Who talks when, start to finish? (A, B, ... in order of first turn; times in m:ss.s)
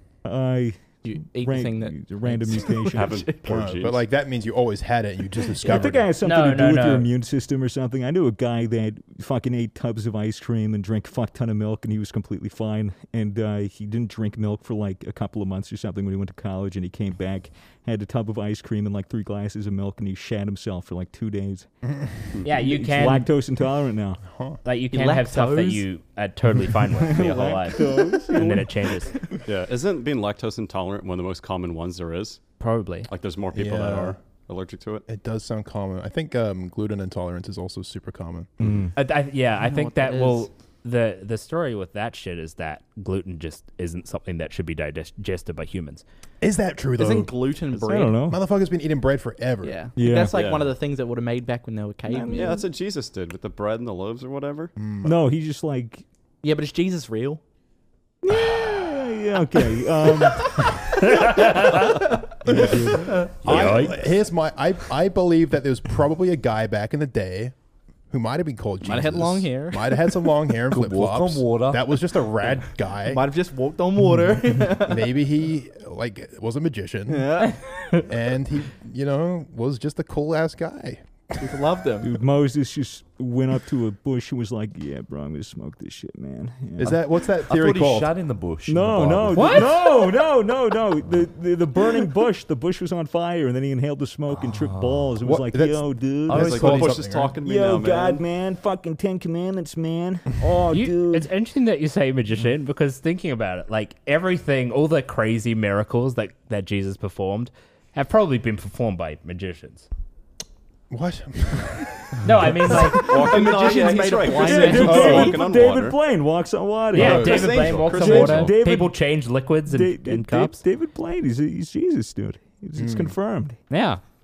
0:00.2-0:03.2 A
0:01.0-0:03.6 B
0:02.9-0:04.0 C
0:03.5-0:06.1 D
0:05.6-0:21.7 A
0:06.2-0:07.1 E
0:22.4-0:23.3 E
0:22.5-0:24.2 A
0:24.3-0:24.6 D
0:24.6-0:29.2 E
0:24.9-0:25.8 B
0:27.0-0:28.7 A
0:29.5-0:32.4 C
0:32.6-0:33.1 E
0:33.1-0:35.0 C
0:33.5-0:34.2 D
0:35.1-0:38.8 D
0:38.6-0:38.9 A
0:39.0-0:46.0 E
0:39.6-0:40.5 B
0:46.4-0:47.5 D
0:47.0-0:48.3 B
0:47.7-0:48.4 A
0:48.3-0:49.8 D
0:49.6-0:52.6 B
0:50.0-0:50.4 A
0:50.3-0:50.7 C
0:52.1-0:52.6 A
0:52.3-0:54.7 C
0:54.8-0:55.2 D
0:55.0-0:56.0 A
0:56.4-0:57.4 B
0:58.2-1:00.8 A
0:58.5-0:58.8 D
1:01.0-1:02.1 E
1:02.4-1:07.6 D
1:02.5-1:03.2 A
1:02.8-1:03.3 B
1:03.4-1:04.0 E
1:08.1-1:13.3 D
1:08.8-1:10.3 B
1:10.7-1:11.9 F
1:13.0-1:15.1 B
1:14.8-1:17.4 D
1:17.1-1:17.6 B
1:18.1-1:21.6 D
1:21.4-1:22.1 B
1:22.0-1:27.0 A
1:26.8-1:28.1 D
1:26.8-1:29.7 F
1:28.7-1:41.3 A
1:29.4-1:29.8 E
1:35.2-1:37.4 D
1:36.3-1:38.2 C
1:36.5-1:37.0 F
1:40.7-1:49.9 E
1:50.9-1:52.6 D
1:52.2-1:53.1 E
1:52.9-1:55.4 B
1:53.0-1:56.0 C
1:54.4-1:59.0 A
1:54.4-1:55.3 E
1:54.8-1:55.4 D
1:56.9-2:00.6 E
1:57.0-1:57.8 D
1:57.0-1:58.5 C
1:59.7-2:03.6 A
2:02.8-2:03.2 D
2:03.7-2:04.0 E